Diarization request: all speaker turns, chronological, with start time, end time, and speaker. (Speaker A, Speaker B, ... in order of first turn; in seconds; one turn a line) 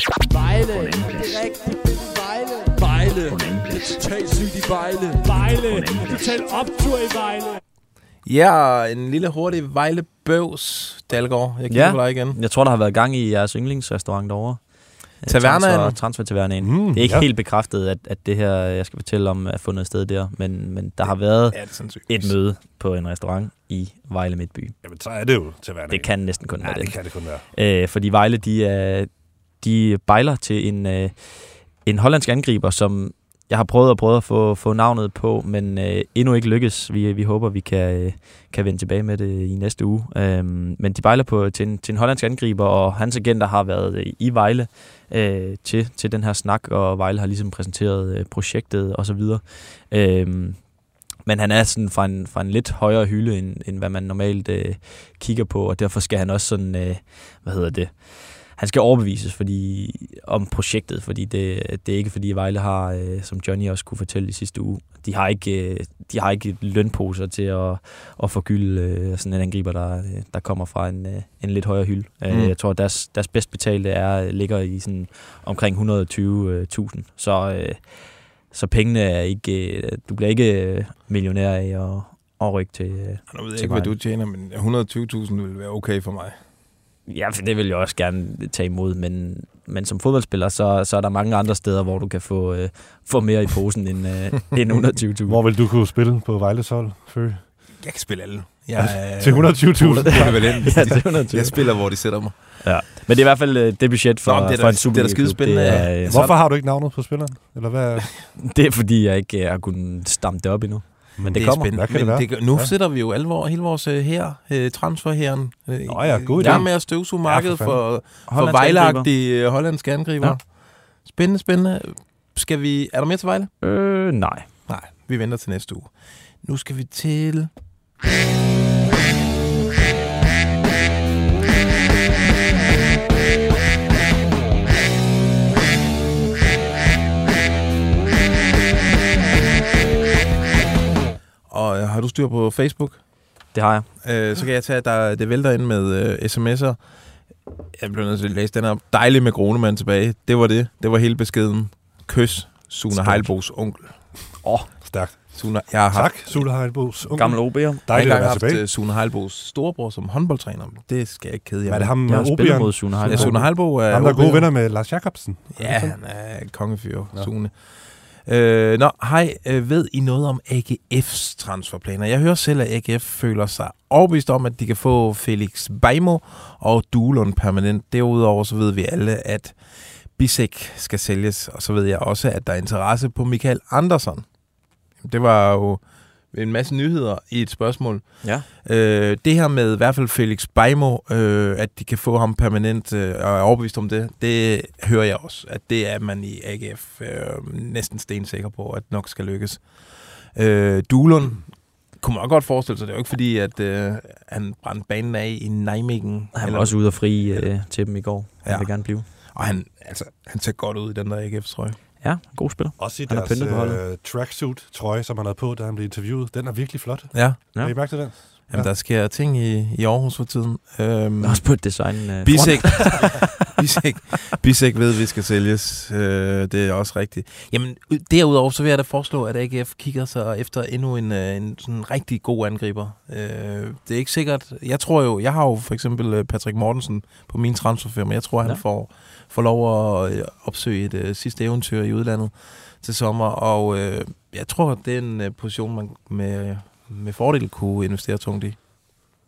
Speaker A: 0.4-3.3
Speaker B: 0.8-1.4
Speaker B: 3.3-4.0
Speaker A: 4.0-7.6
Speaker B: 5.7-6.3
Speaker C: 8.2-12.4
Speaker D: 11.7-24.8
Speaker C: 15.3-16.0
Speaker E: 16.6-17.3
Speaker C: 21.1-22.3
Speaker E: 24.8-27.4
Speaker D: 25.9-84.0
Speaker C: 72.3-72.5
Speaker C: 83.3-86.4
Speaker D: 87.1-95.4
Speaker E: 95.3-97.5
Speaker C: 97.8-102.6
Speaker E: 98.8-100.7
Speaker D: 100.1-101.9
Speaker D: 102.6-106.3
Speaker C: 104.2-106.4
Speaker E: 105.7-108.1
Speaker D: 108.4-111.7
Speaker E: 111.2-112.7
Speaker C: 111.3-123.5
Speaker E: 115.9-117.8
Speaker D: 116.4-116.7
Speaker D: 118.3-119.1
Speaker D: 123.6-124.5
Speaker C: 124.7-127.5
Speaker C: 141.5-143.1
Speaker D: 143.5-143.9
Speaker C: 144.0-147.2
Speaker C: 147.8-154.1
Speaker E: 152.9-153.3
Speaker D: 154.4-154.7
Speaker E: 154.8-158.6
Speaker C: 155.3-156.5
Speaker D: 157.1-158.3
Speaker C: 157.9-161.9
Speaker E: 161.7-166.0
Speaker D: 162.1-163.4
Speaker C: 163.0-164.7
Speaker C: 165.6-184.3
Speaker C: 185.0-207.5
Speaker D: 206.3-209.1
Speaker C: 208.4-211.8
Speaker D: 212.0-213.8
Speaker E: 212.8-218.7
Speaker C: 217.1-248.6
Speaker D: 221.2-223.3